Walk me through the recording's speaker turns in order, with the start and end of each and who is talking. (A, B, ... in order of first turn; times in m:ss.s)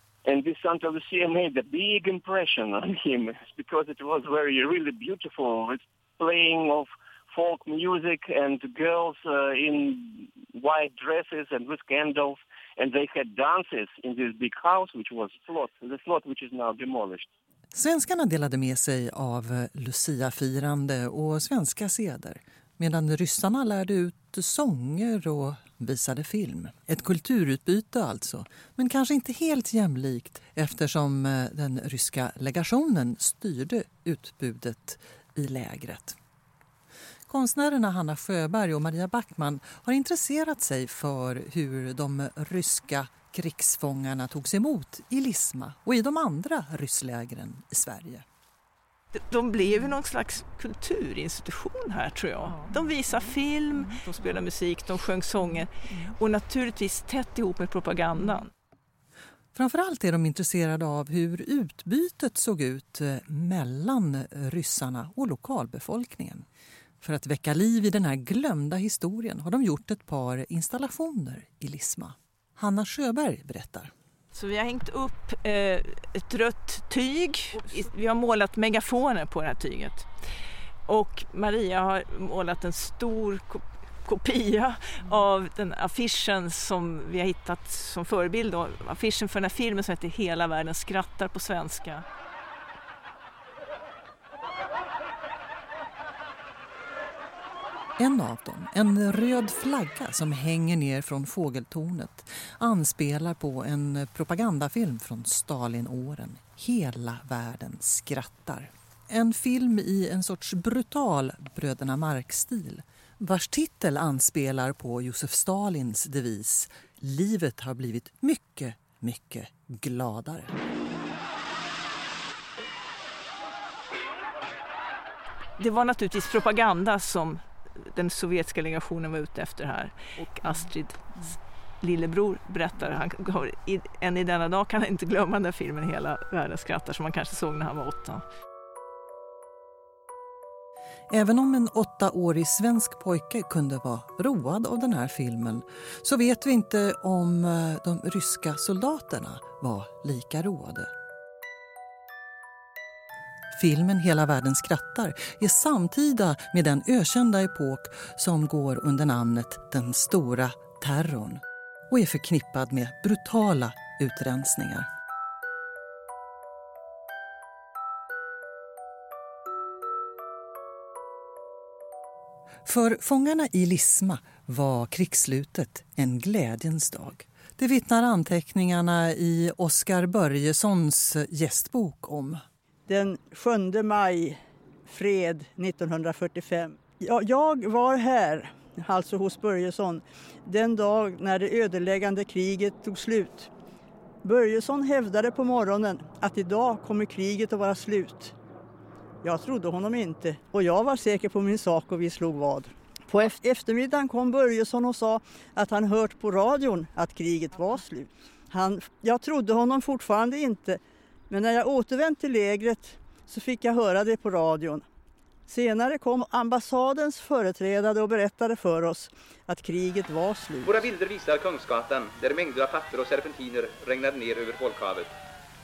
0:00.2-0:17.3 A
0:17.7-0:36.2 B
0:37.3-0:48.2 B
0:49.1-0:58.5 C
0:59.5-1:06.4 B
1:07.0-1:13.9 B
1:14.3-1:32.0 C
1:38.0-2:00.5 B
2:05.6-2:18.2 C
2:21.1-2:30.9 B
2:33.5-2:44.9 B
2:52.6-3:02.4 B
3:02.9-3:13.5 D
3:14.2-3:18.4 D
3:19.2-3:34.8 D
3:35.5-3:40.8 D
3:40.7-3:45.1 E